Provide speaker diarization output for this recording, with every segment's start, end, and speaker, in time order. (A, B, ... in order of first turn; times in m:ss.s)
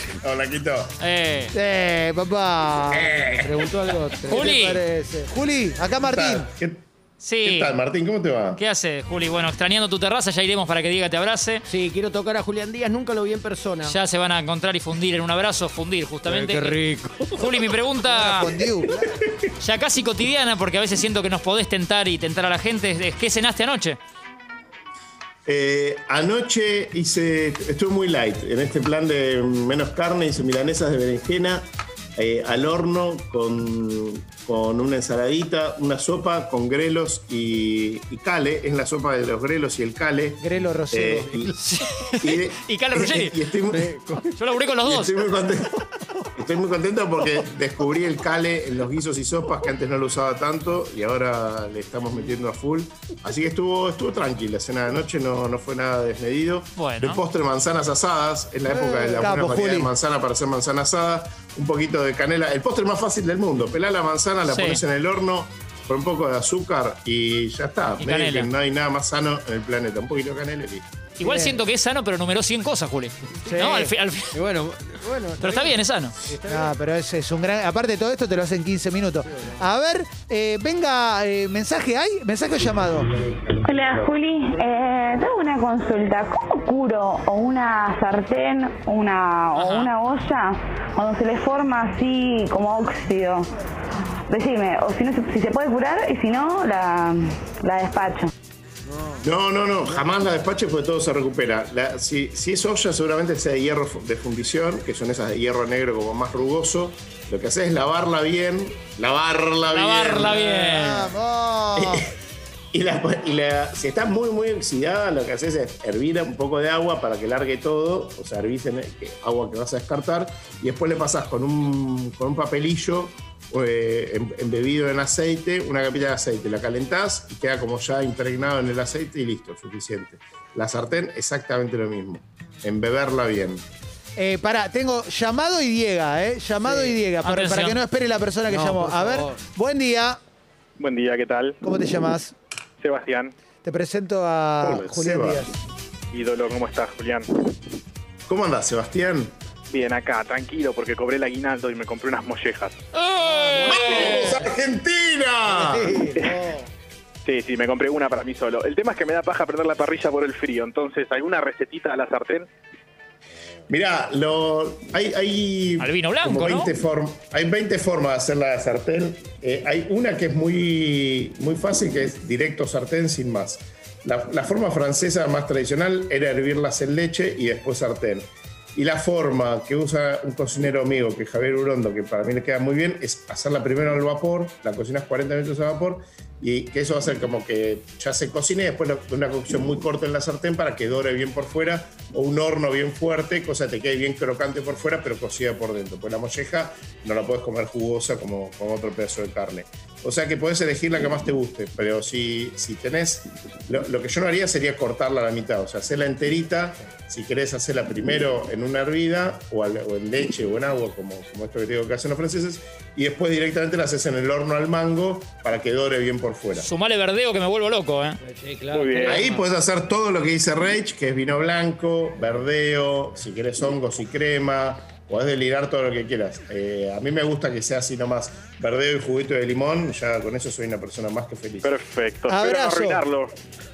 0:00.2-0:00.9 A
0:01.0-0:01.5 B
0:01.5-0:03.3 C
0:02.9-0:03.5 A
0:03.4-0:04.5 D
0:04.3-0:06.5 C
0:04.3-0:04.8 B
0:06.0-0:06.8 A
0:07.2-0:07.7 B
0:07.4-0:08.6 A
0:08.6-0:11.6 B
0:11.7-0:14.0 D
0:13.8-0:16.8 B
0:16.2-0:17.5 D
0:17.3-0:18.5 B
0:18.0-0:19.0 C
0:19.6-0:24.0 B
0:25.4-0:41.5 A
0:40.4-0:41.5 C
0:41.7-0:43.4 B
0:42.2-0:43.9 A
0:43.7-0:44.4 D
0:44.4-0:45.1 B
0:44.8-0:45.8 A
0:46.4-1:10.9 A
0:56.8-0:57.2 B
0:59.2-0:59.9 C
1:04.5-1:04.8 B
1:08.0-1:08.5 B
1:11.2-1:14.4 B
1:11.2-1:11.6 C
1:13.4-1:13.9 C
1:14.3-1:16.7 D
1:15.4-1:16.1 B
1:16.5-1:23.1 C
1:23.6-1:33.5 E
1:29.5-1:29.9 B
1:34.3-1:38.3 E
1:38.8-1:39.2 D
1:39.2-1:50.4 A
1:49.7-1:51.1 B
1:50.2-1:52.0 C
1:51.7-1:52.1 A
1:52.7-2:13.6 A
2:14.2-2:20.2 C
2:16.6-2:17.0 D
2:17.2-2:17.8 B
2:18.5-2:19.4 D
2:20.8-2:21.6 F
2:21.6-2:22.3 C
2:22.8-2:23.3 F
2:23.6-2:25.6 C
2:24.6-2:25.5 A
2:26.1-2:27.3 F
2:28.3-2:29.3 A
2:29.7-2:32.8 F
2:33.0-2:34.1 B
2:33.2-2:34.4 D
2:33.6-2:36.1 A
2:35.5-2:36.7 D
2:37.2-2:42.5 F
2:43.7-3:36.7 A
2:45.8-2:46.7 B
3:36.6-3:38.2 B
3:38.2-3:39.4 D
3:38.7-3:39.2 F
3:39.0-3:51.7 A
3:51.6-3:53.3 F
3:52.3-3:53.0 C